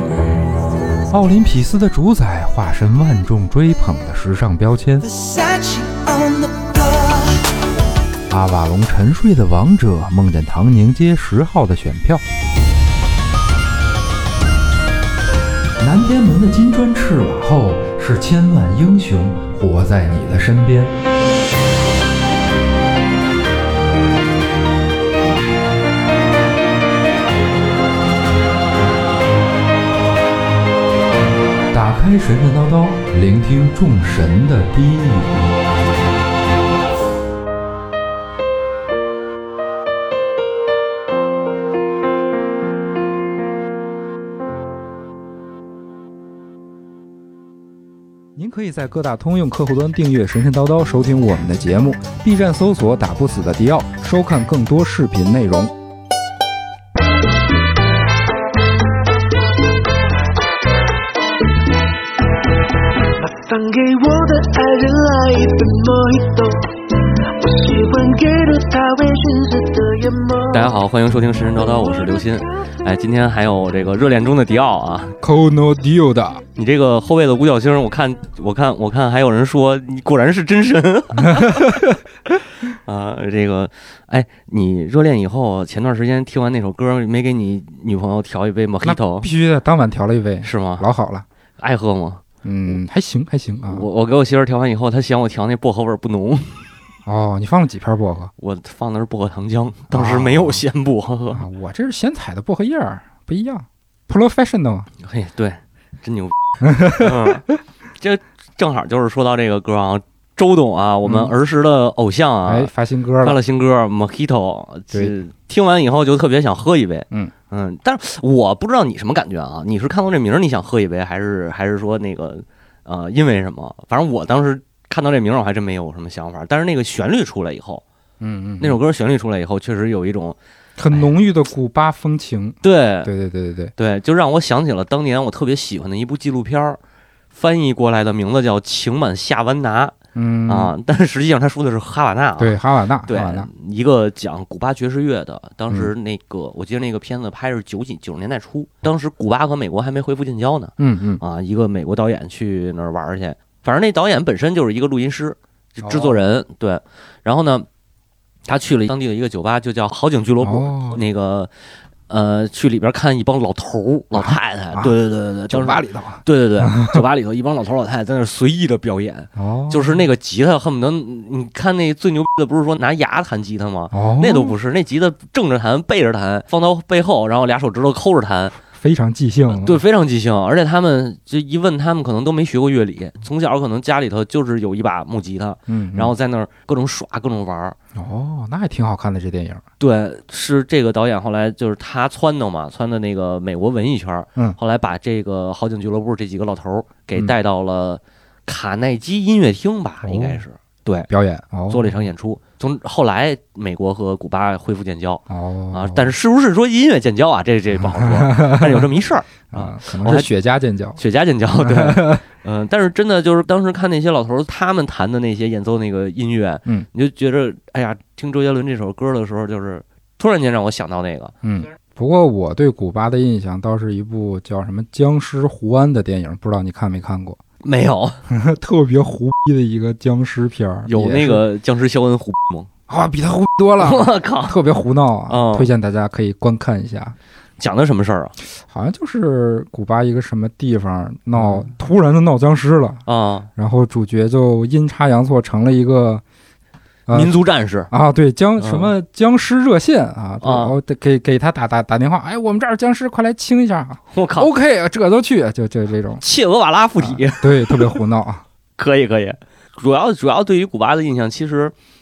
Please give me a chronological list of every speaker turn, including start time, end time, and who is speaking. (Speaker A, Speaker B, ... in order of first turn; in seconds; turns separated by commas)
Speaker A: 1.1-5.1, Speaker B: 5.0-7.4, Speaker A: 8.3-12.2, Speaker A: 15.8-20.9, Speaker A: 31.7-35.5, Speaker A: 48.4-55.7, Speaker B: 63.2-70.7, Speaker C: 70.5-75.2, Speaker A: 75.2-76.4, Speaker C: 76.6-81.9, Speaker A: 81.2-82.0, Speaker C: 82.7-89.3, Speaker A: 88.8-91.2, Speaker C: 90.4-90.9, Speaker C: 91.6-92.7, Speaker A: 92.4-93.9, Speaker C: 93.7-96.7, Speaker A: 97.1-98.3, Speaker C: 98.4-101.5, Speaker A: 99.9-100.6, Speaker A: 101.3-104.9, Speaker C: 105.0-107.5, Speaker A: 106.6-107.4, Speaker C: 108.0-127.8, Speaker A: 111.0-111.3, Speaker A: 112.5-113.4, Speaker A: 128.2-128.8, Speaker C: 128.6-130.4, Speaker A: 130.8-133.7, Speaker C: 132.6-133.1, Speaker C: 133.8-136.8, Speaker C: 137.3-140.0, Speaker A: 140.2-140.7, Speaker C: 140.5-157.7, Speaker A: 142.4-143.5, Speaker A: 150.8-151.2, Speaker A: 155.8-156.2, Speaker C: 158.5-161.5, Speaker A: 160.4-161.0, Speaker C: 162.1-178.6, Speaker A: 164.1-164.9, Speaker A: 165.5-167.0, Speaker A: 169.4-170.0, Speaker A: 173.9-174.6, Speaker A: 178.7-179.8, Speaker C: 179.5-187.8, Speaker A: 185.7-186.1, Speaker A: 188.0-189.6, Speaker C: 189.8-201.1, Speaker A: 200.0-200.4, Speaker A: 201.1-202.0, Speaker C: 201.7-210.3, Speaker A: 205.3-206.1, Speaker A: 207.8-208.9, Speaker A: 209.5-211.0, Speaker C: 211.0-221.3, Speaker A: 211.6-212.2, Speaker A: 221.4-227.4, Speaker C: 227.6-228.3, Speaker A: 228.3-231.4, Speaker C: 230.9-232.7, Speaker A: 232.9-237.2, Speaker C: 233.8-234.6, Speaker C: 235.3-235.7, Speaker C: 237.6-238.3, Speaker A: 238.6-243.0, Speaker C: 241.4-241.7, Speaker C: 243.1-243.5, Speaker A: 243.6-246.2, Speaker A: 247.1-247.3, Speaker C: 247.1-247.9, Speaker A: 247.9-256.2, Speaker C: 248.6-248.9, Speaker C: 250.4-250.8, Speaker C: 254.1-254.5, Speaker C: 256.2-258.0, Speaker A: 257.0-258.4, Speaker C: 258.8-261.7